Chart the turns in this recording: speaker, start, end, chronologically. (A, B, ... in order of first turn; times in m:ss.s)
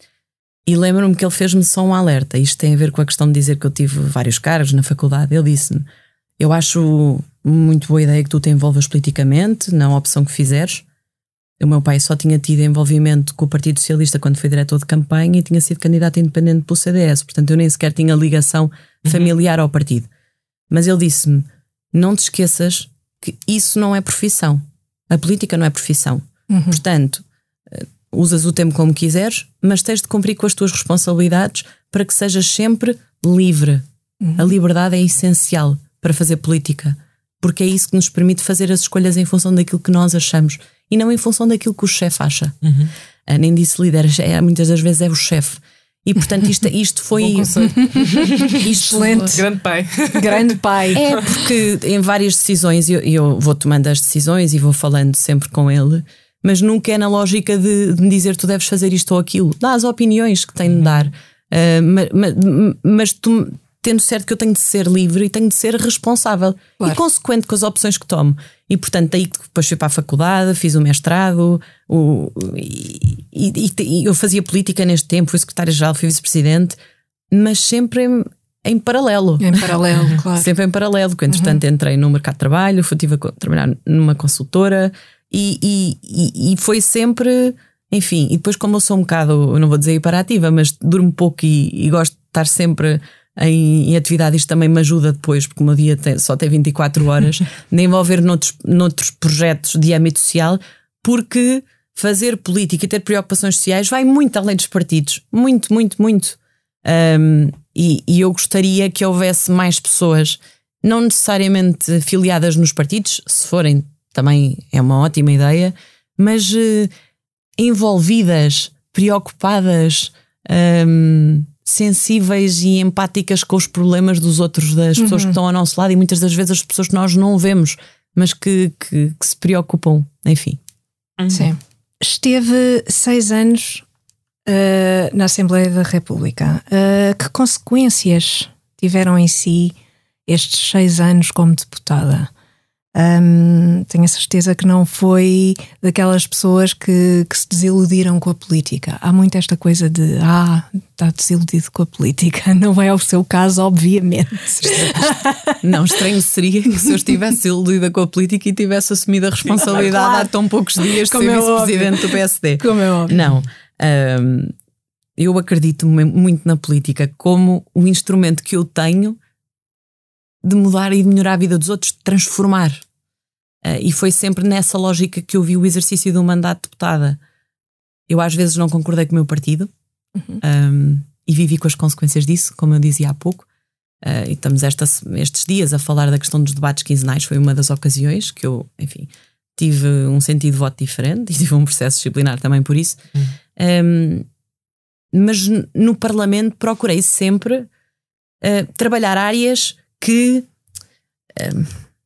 0:00.6-0:05.8 A
0:06.4-0:10.8 A
0:11.6-0:20.1 A
0:20.7-0:33.8 A
0:26.5-0:26.8 B
0:34.2-0:34.5 B
0:34.4-0:42.5 A
0:43.3-0:47.7 A
0:47.2-0:51.4 C
0:47.8-0:49.4 B
0:48.5-0:49.4 A
0:50.1-0:51.2 B
0:50.9-1:16.8 A
1:17.3-1:56.9 A
1:19.4-1:20.5 B
1:21.3-1:21.6 B
1:57.6-2:10.6 A
2:05.0-2:05.3 B
2:11.3-2:13.8 B
2:14.5-2:19.7 B
2:20.3-2:22.3 B
2:22.9-2:35.6 B
2:35.6-2:44.5 A
2:39.5-2:43.2 B
2:45.2-2:49.2 A
2:50.4-2:52.8 A
2:53.6-2:57.2 A
2:58.1-2:59.7 A
3:00.4-3:03.5 A
3:04.0-3:13.0 A
3:13.6-3:14.2 A
3:15.1-3:17.7 A
3:18.4-3:20.5 A
3:21.3-3:21.8 A